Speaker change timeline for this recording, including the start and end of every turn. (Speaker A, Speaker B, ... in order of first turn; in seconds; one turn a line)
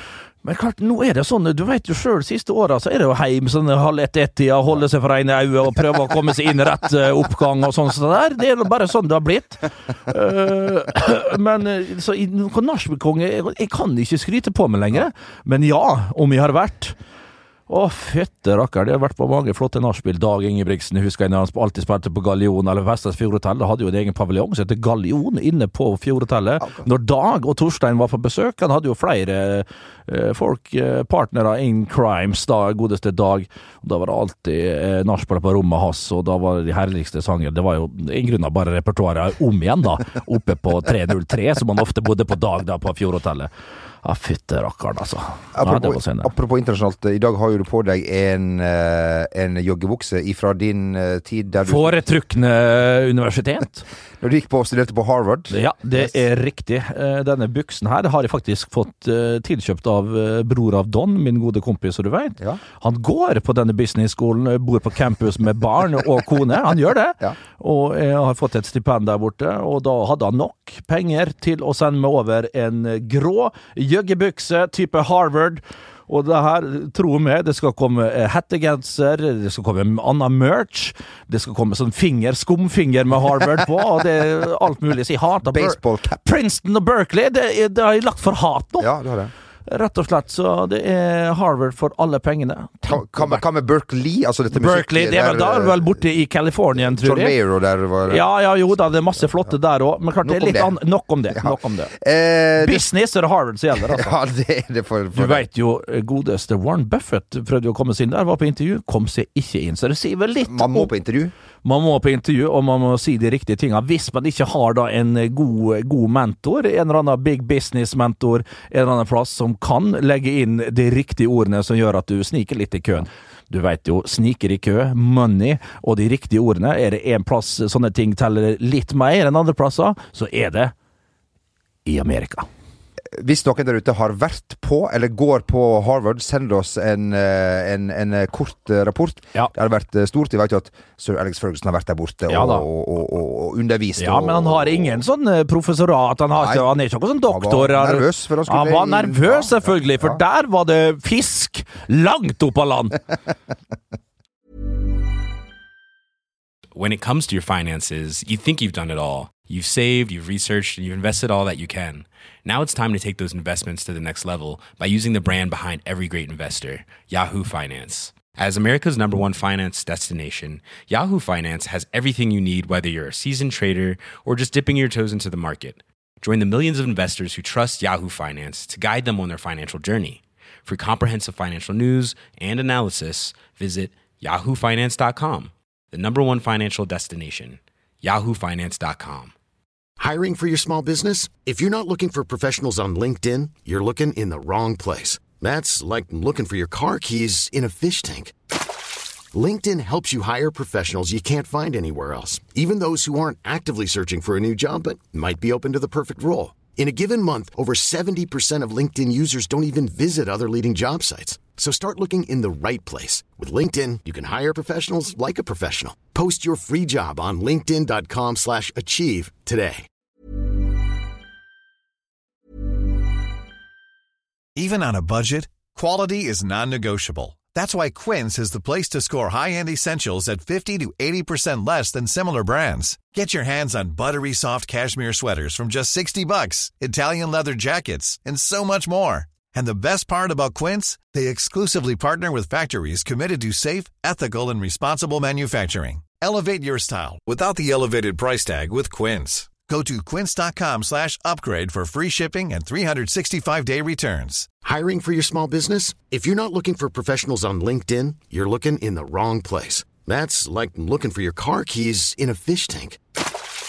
Speaker A: 0.4-17.0
Speaker A: 17.7-43.5
Speaker A: 44.0-46.3
Speaker B: 45.5-52.0
Speaker A: 51.6-53.9
Speaker B: 54.2-56.0
Speaker A: 55.5-88.9
Speaker B: 85.4-86.2
Speaker B: 88.8-89.3
Speaker A: 89.7-93.4
Speaker B: 92.9-96.0
Speaker A: 94.5-97.3
Speaker B: 96.8-98.2
Speaker A: 98.1-101.9
Speaker B: 100.2-100.7
Speaker B: 101.3-102.9
Speaker A: 102.6-104.1
Speaker B: 103.9-105.5
Speaker A: 105.1-110.9
Speaker B: 110.5-111.3
Speaker A: 111.6-130.7
Speaker A: 131.8-132.5
Speaker B: 133.1-145.0
Speaker A: 142.3-142.7
Speaker A: 144.0-153.0
Speaker B: 146.4-146.6
Speaker B: 147.3-150.2
Speaker C: 156.7-189.3
Speaker D: 190.0-198.4
Speaker D: 199.3-219.9
Speaker E: 224.6-254.5
Speaker D: 254.6-263.0